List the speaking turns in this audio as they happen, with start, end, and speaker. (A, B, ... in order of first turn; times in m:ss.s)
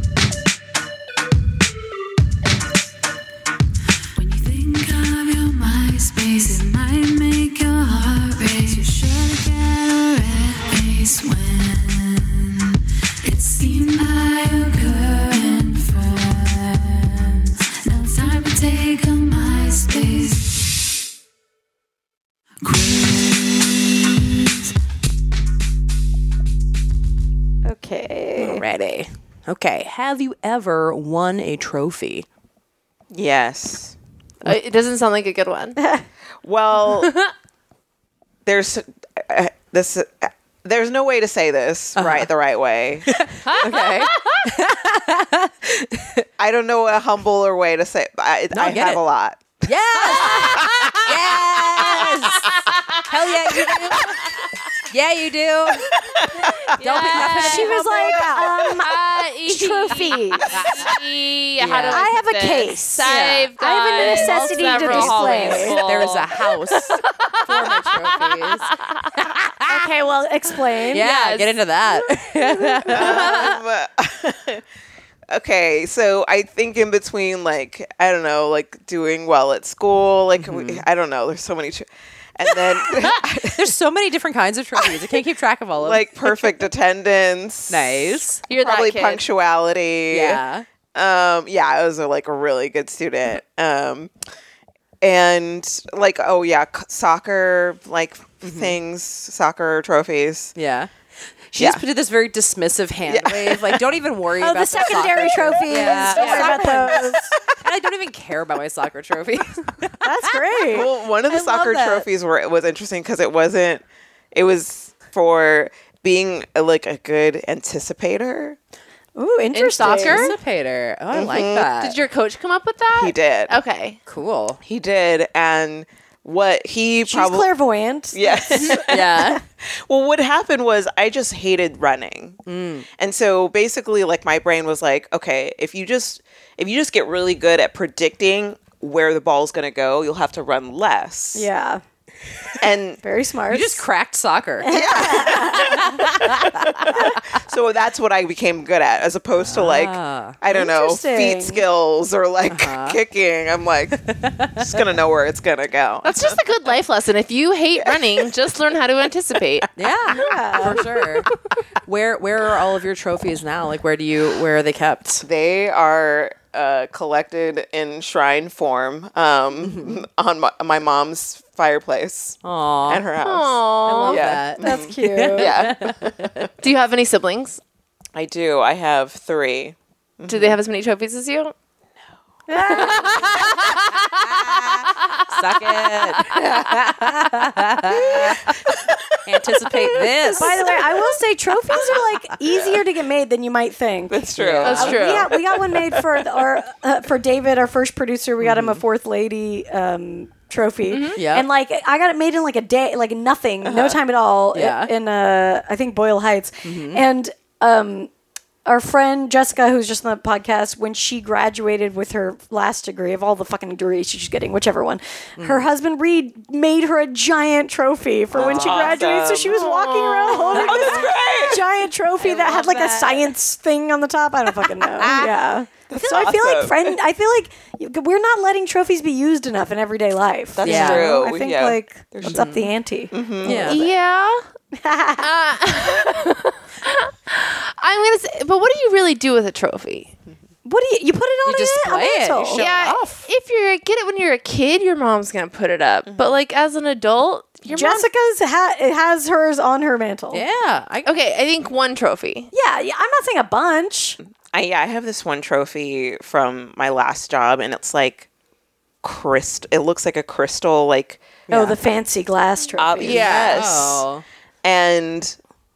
0:04.1-0:20.6 A
0:22.6-0:23.5 A
0:27.6-0:28.6 B
0:28.4-0:32.3 C
0:33.1-0:34.0 D
0:34.4-0:35.8 E
0:35.8-0:36.0 B
0:36.4-0:37.1 D
0:36.8-0:37.3 E
0:38.5-0:43.2 D
0:42.0-0:42.3 C
0:43.1-0:46.3 C
0:43.4-0:44.5 E
0:46.4-0:49.6 D
0:48.5-0:49.0 C
0:49.6-0:52.5 C
0:50.2-0:50.6 E
0:50.2-0:51.1 D
0:52.2-0:53.0 E
0:53.0-0:54.3 C
0:54.9-0:55.9 C
0:55.8-0:56.8 D
0:56.7-1:09.1 E
0:56.7-0:58.6 C
0:57.1-1:00.6 B
1:00.5-1:00.9 C
1:01.6-1:02.1 C
1:01.9-1:03.1 B
1:03.0-1:09.9 C
1:03.6-1:05.8 B
1:09.7-1:11.0 B
1:10.9-1:13.6 C
1:10.9-1:11.6 E
1:12.0-1:13.5 B
1:12.9-1:14.6 D
1:15.3-1:23.7 D
1:20.4-1:20.9 C
1:23.0-1:26.6 C
1:25.8-1:30.4 D
1:27.7-1:28.4 C
1:28.5-1:29.2 E
1:30.1-1:30.6 C
1:30.9-1:34.1 D
1:35.0-1:40.6 D
1:38.4-1:38.8 C
1:40.6-1:40.9 C
1:41.5-1:50.8 C
1:43.1-1:43.8 D
1:44.4-1:47.3 B
1:46.1-1:46.8 E
1:50.0-1:51.9 B
1:50.7-1:58.6 D
1:51.3-1:52.0 C
1:59.2-2:00.4 B
1:59.5-2:00.3 E
1:59.8-2:02.0 C
2:01.1-2:01.7 D
2:01.8-2:04.0 E
2:02.9-2:03.6 D
2:04.1-2:04.6 C
2:04.6-2:07.5 D
2:07.0-2:09.4 B
2:08.1-2:12.4 D
2:08.7-2:09.4 C
2:12.5-2:12.9 C
2:13.0-2:21.5 D
2:21.4-2:21.8 B
2:22.6-2:23.0 D
2:23.0-2:23.8 B
2:23.5-2:27.1 C
2:24.6-2:26.0 B
2:24.7-2:36.4 D
2:29.4-2:30.4 C
2:30.4-2:31.6 B
2:32.5-2:33.0 C
2:34.0-2:34.8 C
2:36.0-2:39.7 E
2:39.8-2:41.3 C
2:40.1-2:40.8 B
2:40.8-2:41.1 D
2:41.8-2:45.2 C
2:45.2-2:56.5 D
2:49.6-2:50.0 C
2:52.4-2:53.1 C
2:53.2-2:54.3 E
2:53.8-2:56.5 C
2:54.6-2:55.6 B
2:56.6-2:57.6 E
2:58.2-3:00.6 D
3:00.3-3:01.5 E
3:02.5-3:03.5 B
3:02.8-3:03.9 E
3:03.0-3:03.7 C
3:03.2-3:04.9 D
3:05.2-3:08.5 C
3:06.2-3:06.5 E
3:06.3-3:06.8 D
3:07.9-3:10.8 D
3:09.2-3:10.7 C
3:10.4-3:28.1 B
3:12.5-3:12.8 D
3:14.1-3:16.2 D
3:14.4-3:15.1 C
3:14.6-3:15.3 E
3:18.4-3:18.8 C
3:20.9-3:21.2 E
3:21.2-3:21.5 C
3:23.6-3:24.0 D
3:24.5-3:24.9 C
3:26.6-3:27.0 C
3:28.6-3:53.1 B
3:35.4-3:35.7 C
3:38.3-3:39.7 D
3:38.4-3:38.9 C
3:39.6-3:41.0 E
3:40.3-3:41.6 D
3:42.3-3:43.1 E
3:45.0-3:45.3 C
3:45.9-3:47.0 D
3:50.6-3:53.9 D
3:50.6-3:51.2 C
3:52.2-3:52.7 C
3:53.4-3:53.8 C
3:53.4-3:54.5 E
3:54.7-3:55.3 B
3:55.2-4:00.1 E
4:00.6-4:02.6 B
4:01.4-4:03.2 C
4:02.6-4:08.1 E
4:06.1-4:06.4 D
4:07.7-4:10.4 B
4:10.3-4:11.1 C
4:11.1-4:12.5 E
4:12.5-4:14.2 B
4:14.4-4:18.3 D
4:19.0-4:21.4 D
4:21.5-4:21.8 C
4:21.5-4:23.3 B
4:22.8-4:24.1 D
4:23.0-4:24.2 C
4:23.0-4:23.7 E
4:24.6-4:25.4 D